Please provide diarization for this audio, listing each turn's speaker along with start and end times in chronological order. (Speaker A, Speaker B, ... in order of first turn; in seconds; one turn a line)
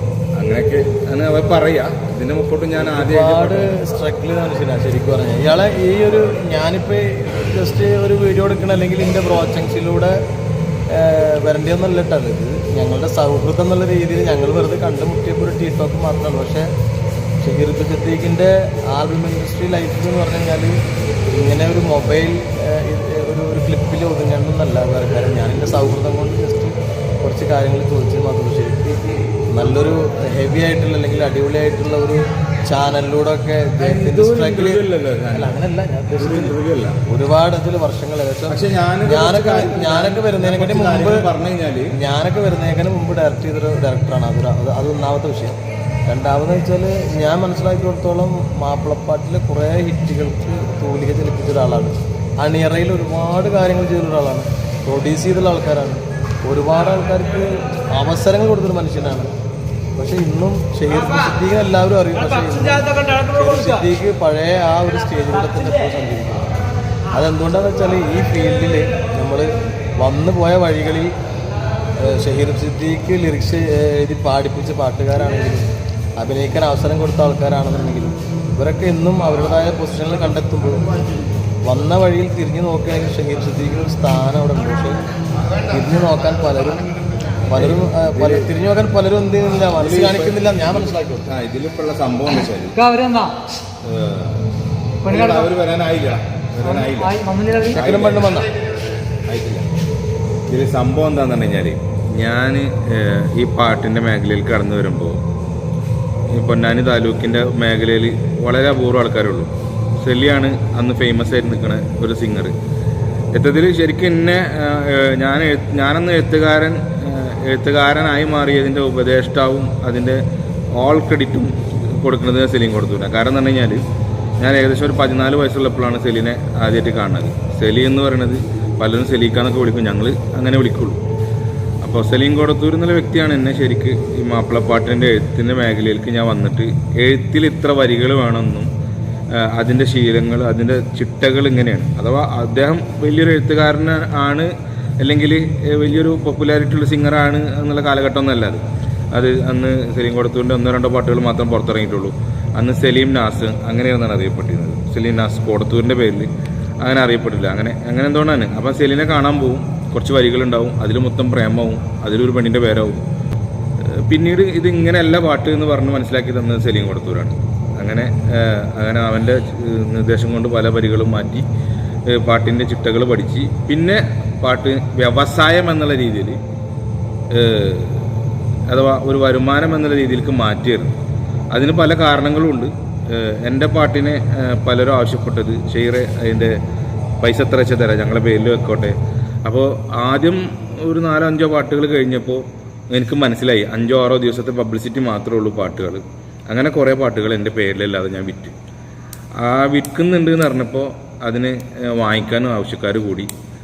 Speaker A: 0.4-3.7
Speaker B: 2.8-10.2
Speaker B: 10.9-16.7
Speaker B: 17.4-20.8
Speaker B: 21.3-34.8
Speaker A: 33.8-35.5
Speaker B: 35.3-36.6
Speaker A: 36.2-37.0
Speaker B: 37.1-41.3
Speaker A: 38.5-41.9
Speaker B: 41.9-59.3
Speaker B: 60.0-71.1
Speaker B: 72.0-75.7
Speaker B: 76.2-81.0
Speaker B: 81.6-85.0
Speaker B: 85.7-91.2
Speaker A: 87.5-88.5
Speaker A: 89.8-92.8
Speaker C: 92.8-93.4
Speaker A: 93.8-98.4
Speaker C: 95.1-95.4
Speaker C: 96.8-97.8
Speaker B: 97.7-98.5
Speaker A: 99.3-99.7
Speaker A: 100.5-105.2
Speaker A: 106.3-112.5
Speaker A: 113.3-120.2
Speaker A: 120.8-123.8
Speaker A: 124.4-131.0
Speaker A: 131.8-138.7
Speaker A: 139.3-163.0
Speaker A: 163.8-171.4
Speaker A: 172.1-176.4
Speaker A: 177.3-180.9
Speaker A: 181.5-186.6
Speaker A: 187.2-198.5
Speaker A: 199.4-203.3